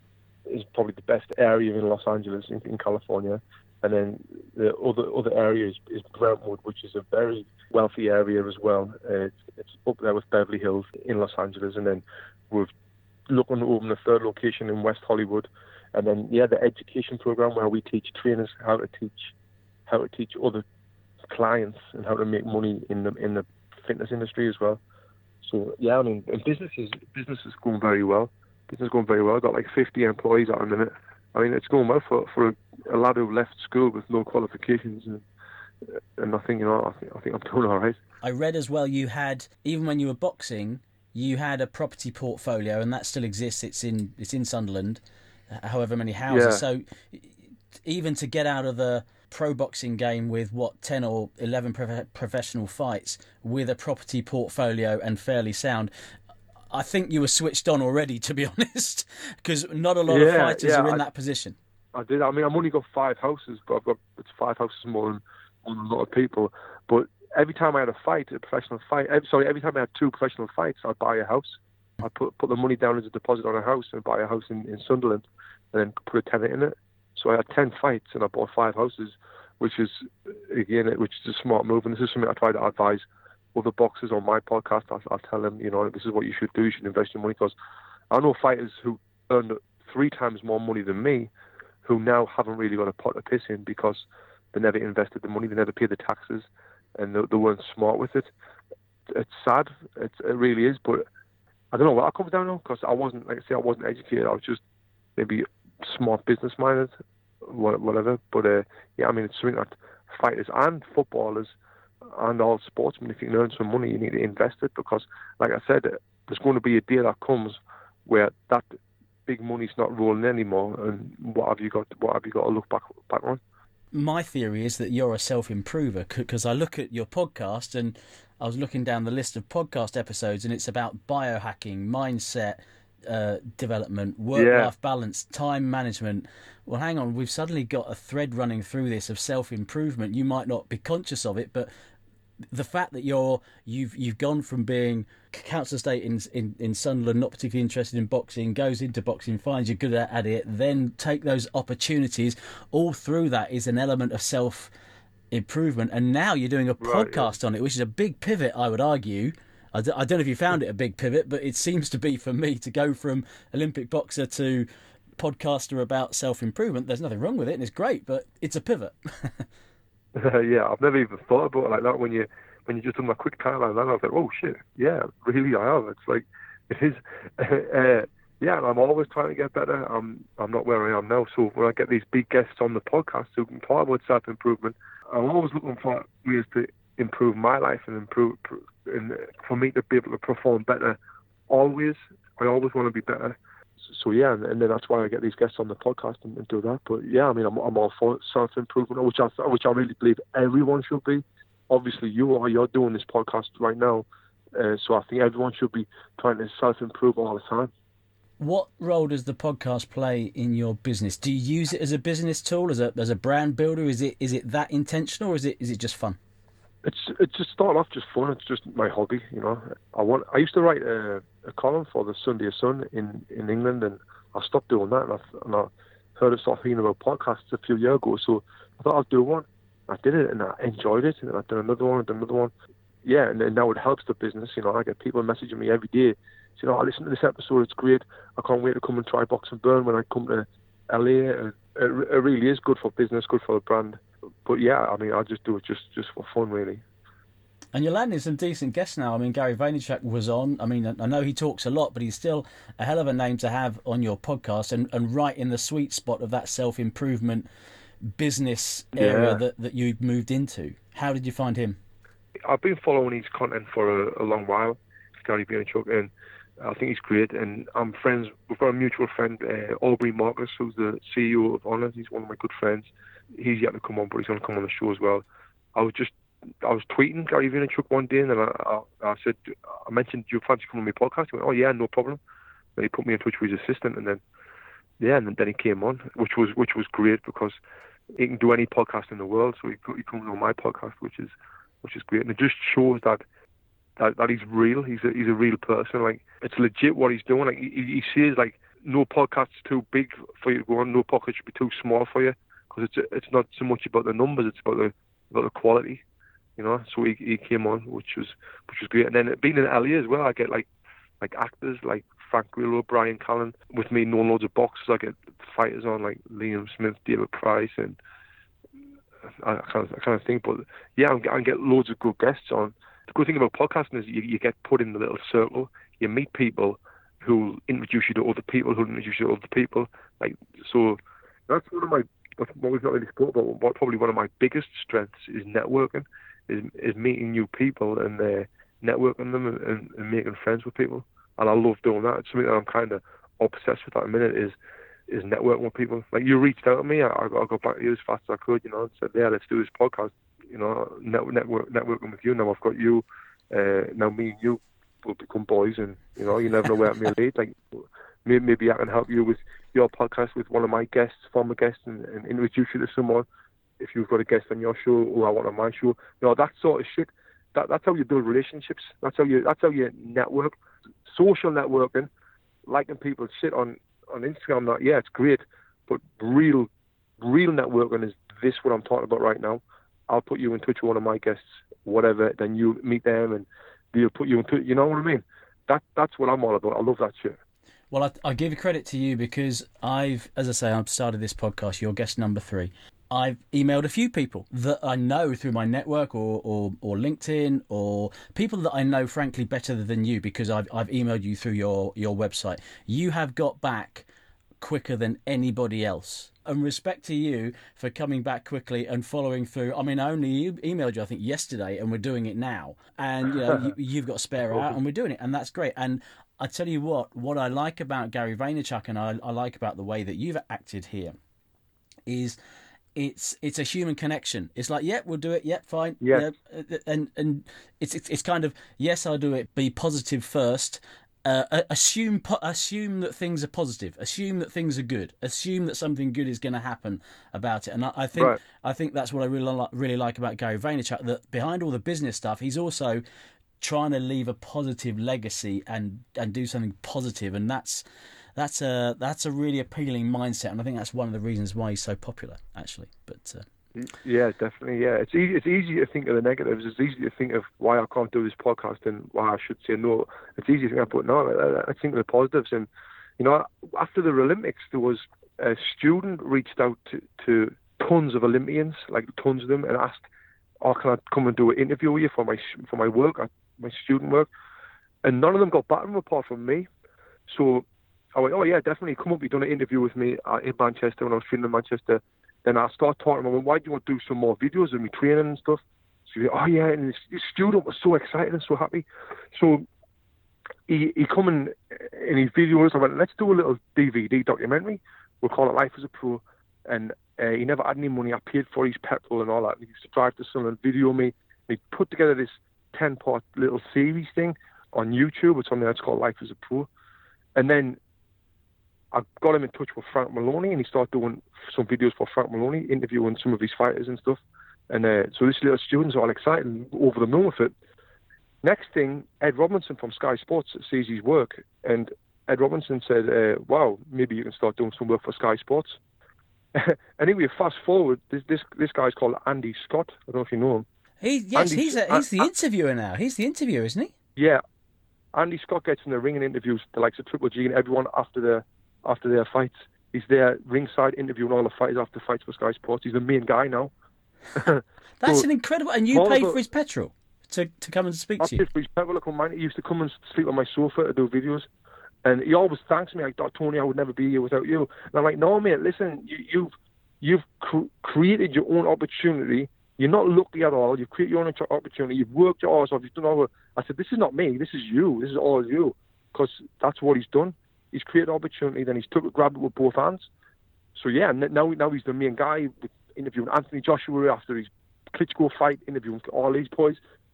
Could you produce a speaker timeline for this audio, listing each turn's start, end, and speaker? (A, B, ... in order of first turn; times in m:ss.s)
0:00.5-0:12.7 A
0:13.3-0:19.3 A
0:19.9-0:20.6 A
0:21.3-0:24.8 A
0:25.4-0:35.2 A
0:35.8-0:38.0 A
0:38.2-0:55.9 B
0:46.3-0:46.6 A
0:56.7-1:01.6 B
1:00.1-1:01.0 A
1:01.9-1:27.5 A
1:28.1-1:31.3 A
1:31.8-1:38.3 A
1:39.1-1:41.1 A
1:41.7-1:44.6 A
1:45.2-1:46.9 A
1:47.4-1:51.5 A
1:52.1-1:58.7 A
1:59.3-2:03.4 A
2:03.9-2:21.7 B
2:14.3-2:14.7 A
2:22.5-2:34.7 B
2:35.3-2:49.5 B
2:36.8-2:37.3 A
2:50.1-3:11.0 A
3:11.5-3:13.4 A
3:13.9-3:27.7 A
3:28.4-3:36.2 B
3:36.8-3:52.5 A
3:53.0-4:06.8 A
4:07.7-4:17.4 B
4:18.0-4:21.8 B
4:19.0-4:19.4 A
4:22.4-4:35.2 A
4:35.8-4:42.2 A
4:42.8-4:44.2 A
4:45.0-4:47.6 A
4:48.1-4:53.2 A
4:54.0-5:06.0 A
5:06.6-5:10.7 A
5:11.2-5:18.0 A
5:19.4-5:44.5 A
5:45.1-6:03.2 A
6:03.8-6:10.5 A
6:11.1-6:12.1 A
6:12.7-6:16.7 A
6:17.2-6:27.4 A
6:27.9-6:44.1 B
6:44.6-7:01.2 B
7:02.0-7:02.4 B
7:02.9-7:23.0 B
7:06.0-7:06.3 A
7:18.1-7:18.4 A
7:23.6-7:27.8 B
7:28.4-7:33.4 B
7:33.8-7:50.0 A
7:50.6-7:54.3 A
7:55.0-7:56.7 A
7:57.3-8:09.6 A
8:10.7-8:26.7 A
8:27.4-8:27.8 A
8:28.9-8:37.5 A
8:38.4-8:45.8 A
8:46.5-8:50.6 A
8:51.0-8:53.9 B
8:51.4-8:52.3 A
8:54.2-8:54.4 A
8:55.1-9:03.7 A
9:04.3-9:05.2 A
9:05.0-9:08.4 B
9:05.9-9:06.4 A
9:08.2-9:11.5 A
9:12.0-9:30.1 A
9:30.7-9:36.8 A